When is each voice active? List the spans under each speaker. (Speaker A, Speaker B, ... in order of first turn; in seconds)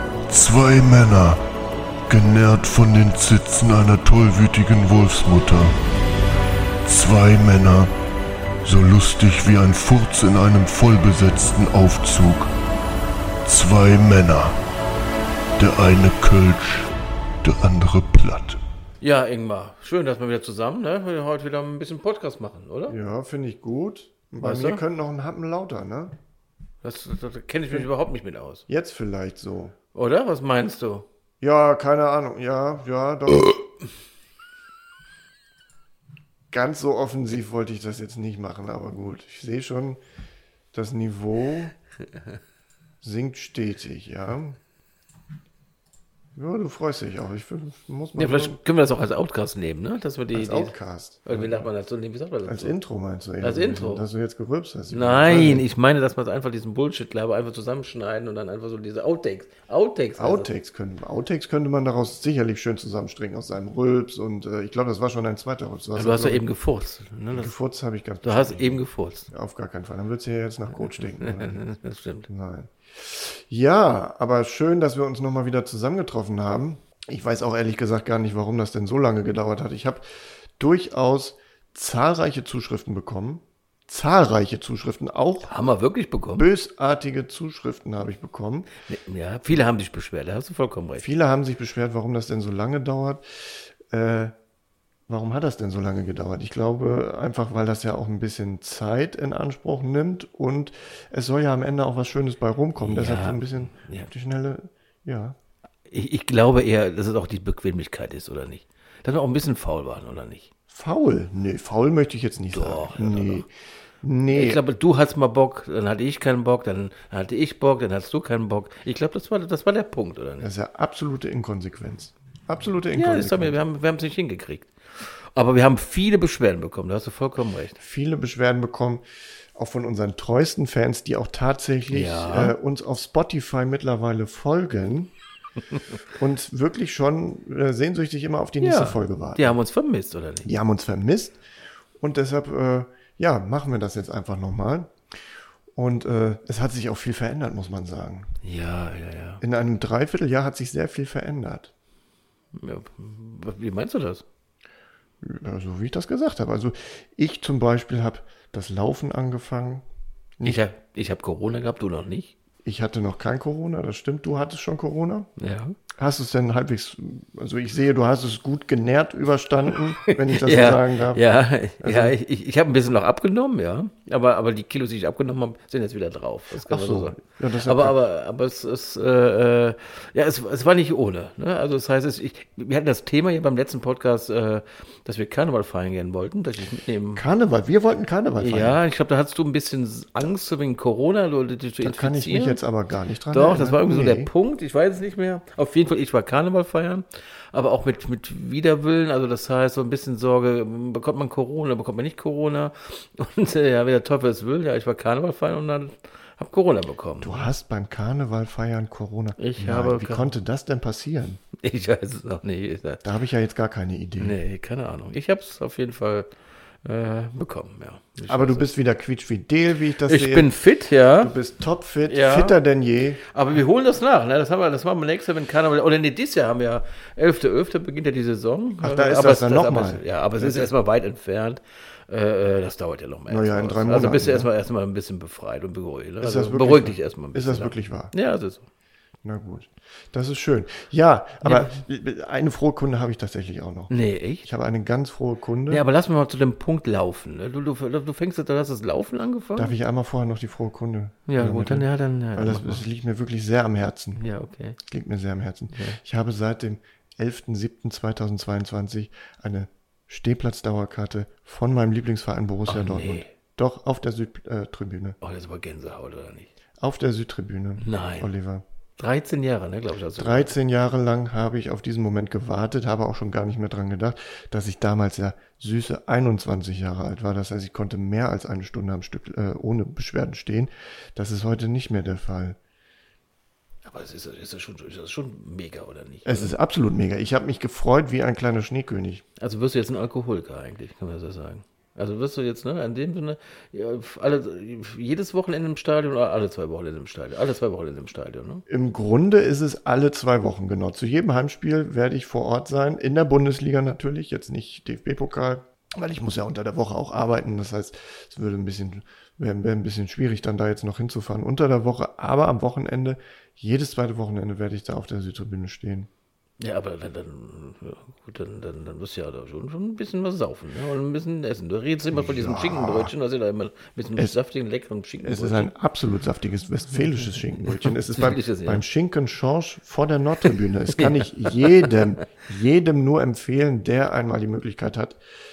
Speaker A: 0.3-1.4, 2.1-5.8, 6.8-7.9, 8.6-12.5, 13.4-14.6, 15.6-18.6
Speaker B: 19.0-23.0, 24.4-24.8, 26.8-28.7, 29.9-31.1, 48.2-52.8, 53.4-54.0, 54.9-60.5, 65.9-67.5, 68.2-69.3, 70.8-72.3, 85.4-86.5, 88.8-91.1, 102.8-104.1, 105.9-110.5, 112.5-113.4, 114.3-120.5, 122.9-127.8, 131.9-132.5, 138.6-140.5, 148.4-149.4, 152.5-154.2, 160.4-162.3, 165.4-165.8, 170.0-187.2, 188.4-192.6, 193.3-207.5, 209.4-210.3, 211.5-213.0, 214.2-216.3, 216.8-218.6, 220.0-221.3, 222.1-222.6, 223.2-238.6, 241.4-241.8, 243.9-244.5, 245.7-249.7, 251.3-252.8, 254.1-254.8, 255.7-256.0, 262.7-263.3, 265.2-266.5, 267.8-268.3, 269.0-270.5, 283.8-286.5, 289.4-298.6, 316.6-325.7, 327.9-328.8, 330.9-332.1
Speaker C: 22.9-26.1, 28.7-29.7, 31.4-33.6, 36.5-40.0, 40.7-41.7, 43.0-44.6, 46.4-48.6, 50.3-51.7, 52.4-55.7, 60.1-66.4, 67.3-71.6, 72.3-80.0, 80.6-85.5, 86.3-88.7, 91.0-94.3, 95.1-105.3, 110.7-113.5, 114.0-114.6, 120.4-123.6, 127.8-129.0, 129.6-135.1, 136.1-139.6, 140.4-141.4, 142.0-144.9, 145.7-148.3, 149.4-151.7, 155.2-159.8, 162.6-165.3, 165.9-171.2, 171.8-172.2, 176.6-178.0, 187.2-188.8, 191.8-194.3, 207.2-211.4, 213.0-214.4, 218.3-220.5, 221.2-223.2, 228.8-230.7, 233.3-234.5, 236.2-238.1, 239.2-243.9, 244.4-245.8, 249.6-254.2, 254.8-265.2, 266.8-268.6, 270.1-282.6, 286.2-289.2, 298.7-316.1, 322.1-323.1, 325.2-335.2